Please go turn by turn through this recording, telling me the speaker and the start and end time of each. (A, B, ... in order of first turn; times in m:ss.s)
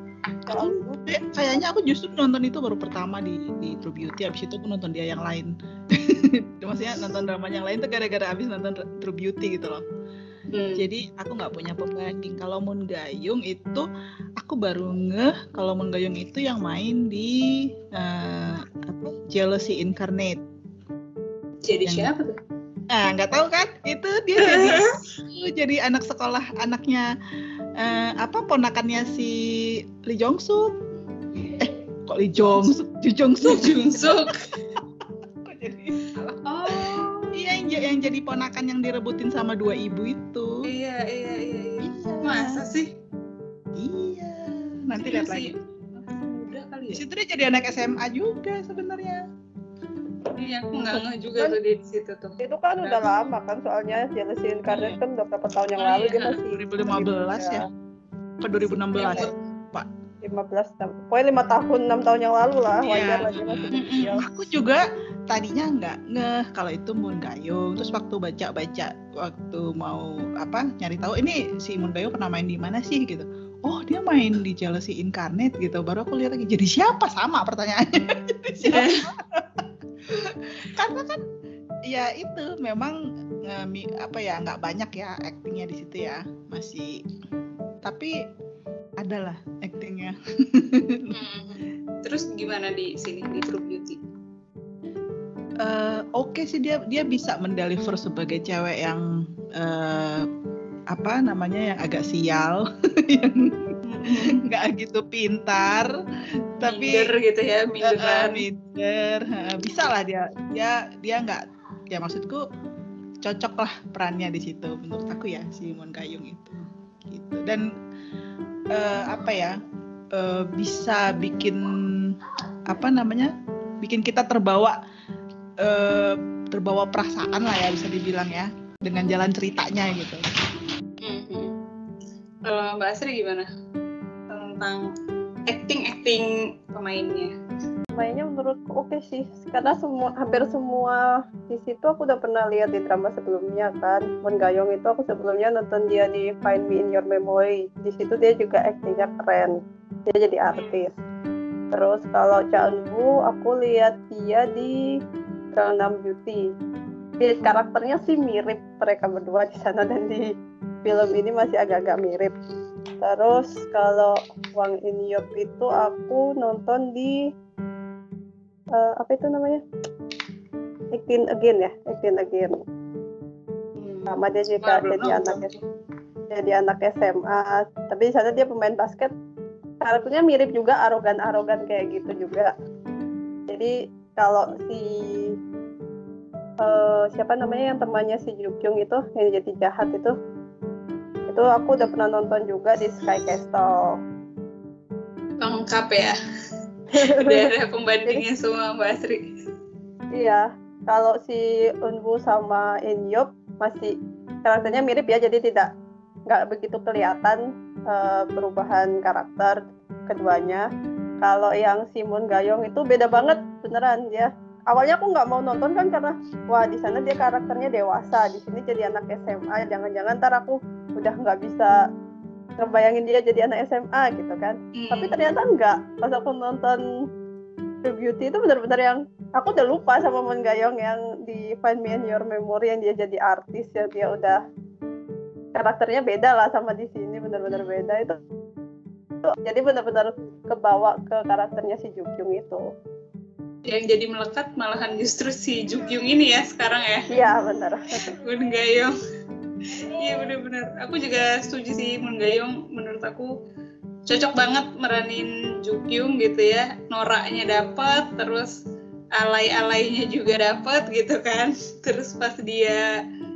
0:00.5-0:01.2 A
0:00.5-0:09.8 B
0:10.5-0:10.8 C
0:10.8-0:13.9 B
0:14.4-0:17.4 B
0:17.9-0:20.4 B
0:21.6-0:22.4 C
0:21.8-0:22.1 B
0:22.9-0:27.1 B
0:24.4-0:25.0 C
0:27.8-0:30.8 B
0:31.4-0:34.8 B
0:33.4-0:34.4 C
0:35.4-0:36.1 B
0:36.2-0:37.4 C
0:36.7-0:40.6 B
0:40.6-0:42.9 C
0:41.8-0:42.6 B
0:43.8-0:45.6 B
0:45.1-0:47.0 C
0:46.9-0:49.2 B
0:50.3-0:53.0 C
0:52.4-0:57.6 A
0:54.7-0:55.0 C
0:55.8-0:56.4 C
0:56.5-0:57.6 B
0:58.4-0:59.9 B
0:59.0-0:59.3 C
0:59.0-0:59.3 A
1:00.2-1:04.2 A
1:02.8-1:21.2 B
1:03.7-1:04.2 C
1:18.6-1:19.1 C
1:21.9-1:27.0 B
1:27.8-1:28.2 B
1:29.0-1:31.2 B
1:31.1-1:34.0 C
1:35.6-1:40.3 B
1:40.9-1:45.9 B
1:43.9-1:44.4 C
1:46.6-1:47.1 B
1:46.6-1:48.4 C
1:47.8-1:51.4 B
1:51.9-1:52.4 B
1:53.2-1:57.7 B
1:58.7-1:59.6 B
2:00.1-2:02.2 B
2:02.7-2:04.8 B
2:05.6-2:10.2 B
2:11.0-2:11.5 C
2:12.4-2:13.5 C
2:14.3-2:14.9 C
2:15.5-2:17.3 C
2:18.0-2:29.6 A
2:30.1-2:30.9 A
2:30.5-2:30.8 C
2:31.7-2:34.8 A
2:35.6-2:36.4 A
2:37.2-2:40.3 A
2:40.8-2:42.3 A
2:43.0-2:47.2 A
2:48.8-2:49.6 A
2:51.0-2:52.6 A
2:53.8-2:55.6 C
2:54.1-2:55.5 A
2:56.3-2:59.1 A
2:59.8-3:02.5 A
3:03.5-3:05.3 A
3:06.6-3:10.1 A
3:11.3-3:13.9 A
3:15.4-3:16.2 C
3:17.0-3:17.5 A
3:17.1-3:19.3 C
3:20.2-3:23.9 A
3:24.4-3:25.7 A
3:26.3-3:29.6 A
3:30.1-3:30.6 A
3:31.2-3:41.7 A
3:42.6-3:46.8 A
3:44.8-3:45.3 C
3:47.8-3:54.4 A
3:55.6-3:58.2 A
3:59.4-4:02.6 A
4:03.6-4:07.1 C
4:07.1-4:08.0 A
4:08.1-4:09.0 C
4:09.7-4:13.3 C
4:14.1-4:18.6 C
4:19.2-4:22.9 C